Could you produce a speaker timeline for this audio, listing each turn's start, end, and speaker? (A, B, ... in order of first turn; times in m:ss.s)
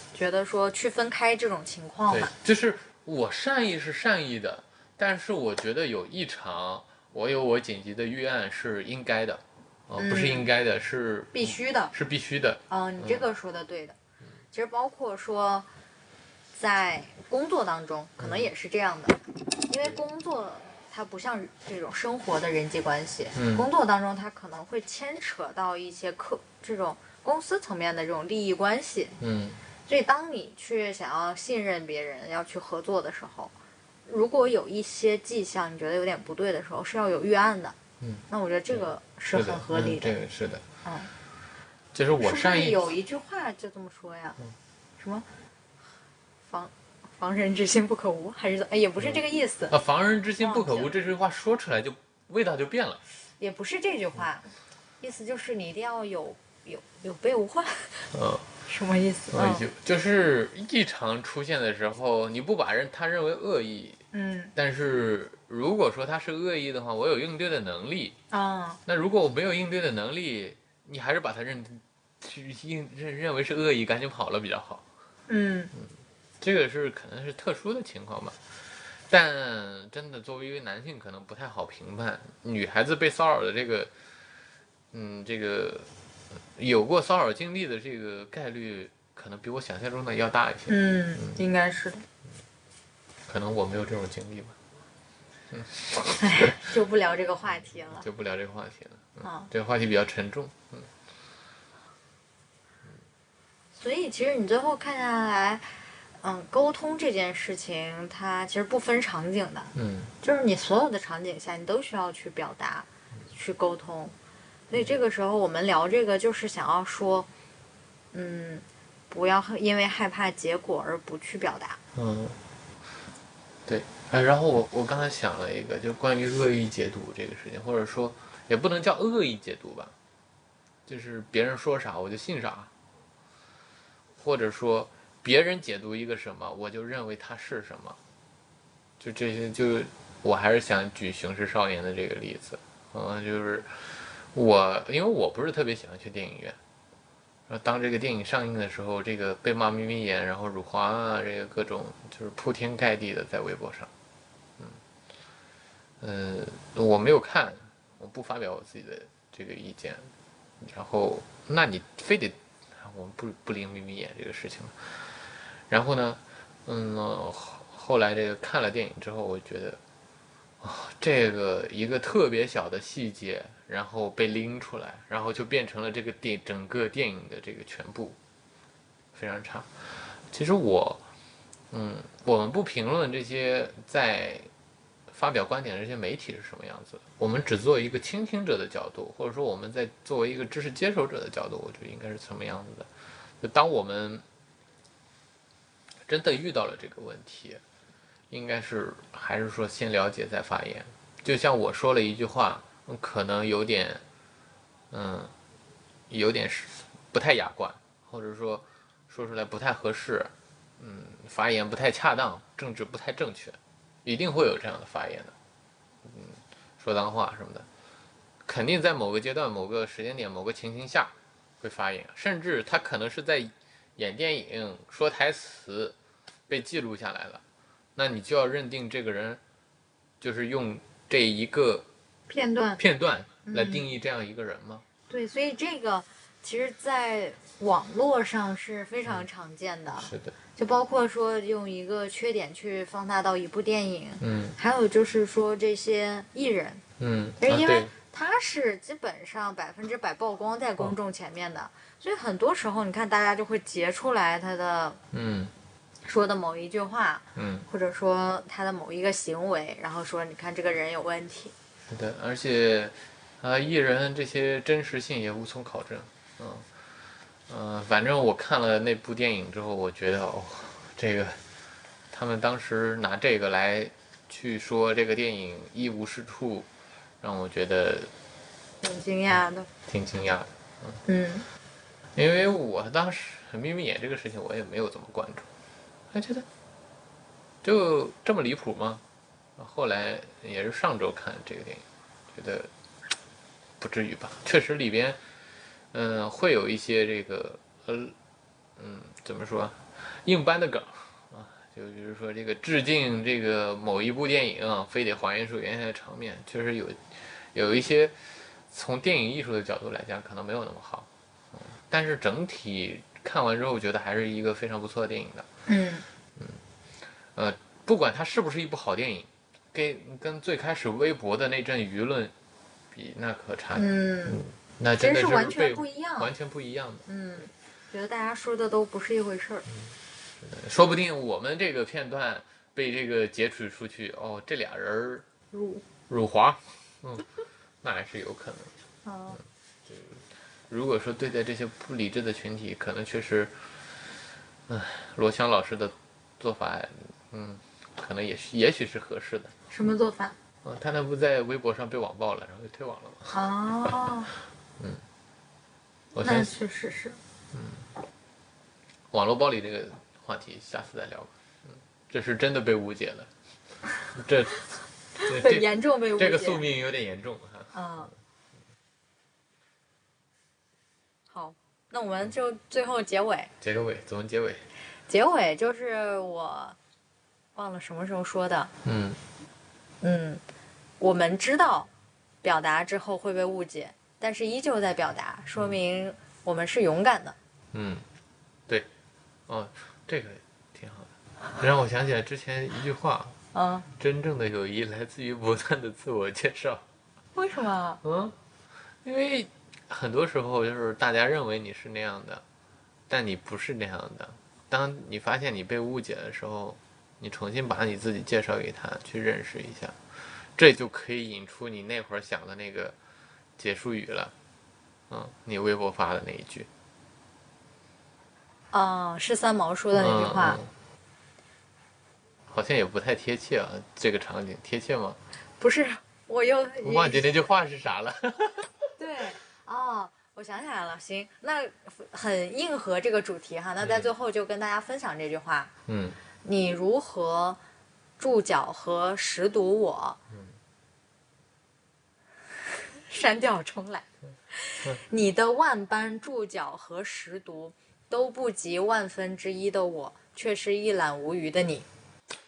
0:00.1-0:02.3 A
0:02.1-0:13.2 B
0:10.0-0:10.5 A
0:11.3-0:11.9 A
0:12.7-0:14.0 A
0:14.5-0:15.7 A
0:16.6-0:29.2 A
0:18.2-0:18.5 B
0:23.3-0:23.7 B
0:29.2-0:29.6 B
0:29.9-0:33.5 A
0:34.1-0:37.8 A
0:38.0-0:40.6 B
0:38.3-0:40.1 A
0:40.8-0:41.1 A
0:41.9-0:42.9 B
0:42.2-0:44.4 A
0:45.0-0:45.2 A
0:46.5-0:49.8 A
0:49.0-0:53.0 B
0:50.4-0:50.9 A
0:53.4-0:54.5 A
0:55.0-0:59.6 A
0:58.1-0:58.5 B
0:59.3-1:04.0 B
1:04.1-1:04.5 A
1:04.6-1:08.2 B
1:08.3-1:08.8 A
1:08.9-1:14.8 B
1:15.3-1:15.7 A
1:15.8-1:23.9 B
1:24.9-1:25.9 B
1:26.6-1:31.4 B
1:30.7-1:32.0 A
1:33.3-1:34.6 B
1:35.5-1:36.6 B
1:36.2-1:38.1 A
1:37.8-1:40.9 B
1:39.2-1:39.5 A
1:43.8-1:54.2 A
1:49.8-1:50.1 B
1:54.7-1:57.3 A
1:58.1-2:01.8 A
2:02.0-2:02.4 B
2:03.7-2:09.9 B
2:10.9-2:12.7 B
2:14.2-2:18.0 B
2:19.0-2:26.6 B
2:27.5-2:33.9 B
2:36.0-2:49.8 B
2:50.6-2:58.2 B
2:59.1-3:01.0 B
3:01.7-3:04.5 B
3:05.1-3:14.2 B
3:16.1-3:17.6 B
3:18.3-3:24.0 B
3:24.9-3:25.3 B
3:26.1-3:35.4 B
3:36.0-3:37.7 B
3:38.4-3:46.0 B
3:46.5-3:47.4 B
3:48.0-3:49.4 B
3:50.2-3:51.9 B
3:52.3-3:52.8 A
3:52.8-3:54.8 B
3:53.4-3:53.8 A
3:55.1-4:06.8 A
4:00.0-4:00.4 B
4:04.2-4:04.6 B
4:07.0-4:07.9 B
4:07.4-4:15.0 A
4:15.1-4:15.5 B
4:16.0-4:21.5 A
4:17.4-4:17.7 B
4:21.9-4:26.7 B
4:27.5-4:31.4 B
4:32.1-4:36.7 B
4:37.2-4:38.1 B
4:38.8-4:39.7 A
4:39.9-4:41.0 B
4:41.1-4:41.5 A
4:42.1-4:45.5 B
4:46.1-4:46.5 B
4:47.6-4:49.0 B
4:49.6-4:52.7 B
4:53.8-4:55.2 B
4:55.9-4:58.2 B
4:58.8-5:15.5 B
5:15.7-5:16.0 A
5:17.3-5:22.3 B
5:22.9-5:27.1 B
5:23.8-5:24.4 A
5:25.0-5:26.3 A
5:27.1-5:29.7 A
5:29.8-5:35.3 B
5:35.5-5:35.8 A
5:36.1-5:37.3 B
5:37.8-5:38.7 B
5:39.0-5:39.4 A
5:39.9-5:44.0 B
5:44.7-5:49.6 B
5:49.7-5:50.4 A
5:50.6-5:53.4 B
5:53.3-5:54.3 A
5:54.8-5:55.0 B
5:56.1-5:56.5 B
5:56.2-5:57.2 A
5:57.5-5:57.9 B
5:59.1-6:03.3 B
6:04.1-6:07.8 B
6:05.2-6:06.6 A
6:07.7-6:08.1 A
6:11.3-6:13.5 A
6:13.6-6:14.7 B
6:15.1-6:16.8 A
6:17.6-6:18.7 A
6:18.8-6:19.2 B
6:20.0-6:20.4 A
6:21.0-6:21.9 A
6:22.4-6:27.4 A
6:27.7-6:28.1 B
6:29.5-6:33.4 B
6:33.5-6:33.9 A
6:34.0-6:36.8 B
6:37.4-6:38.0 A
6:38.0-6:38.4 B
6:39.0-6:42.4 B
6:43.1-6:53.0 B
6:53.6-6:54.3 B
6:55.1-6:56.7 B
6:58.7-7:00.6 A
6:59.9-7:00.7 B
7:02.5-7:05.2 B
7:05.6-7:07.2 A
7:06.8-7:08.7 B
7:09.0-7:15.7 A
7:13.8-7:14.1 B
7:15.9-7:16.2 B
7:16.4-7:17.6 A
7:18.2-7:20.2 A
7:23.0-7:31.8 A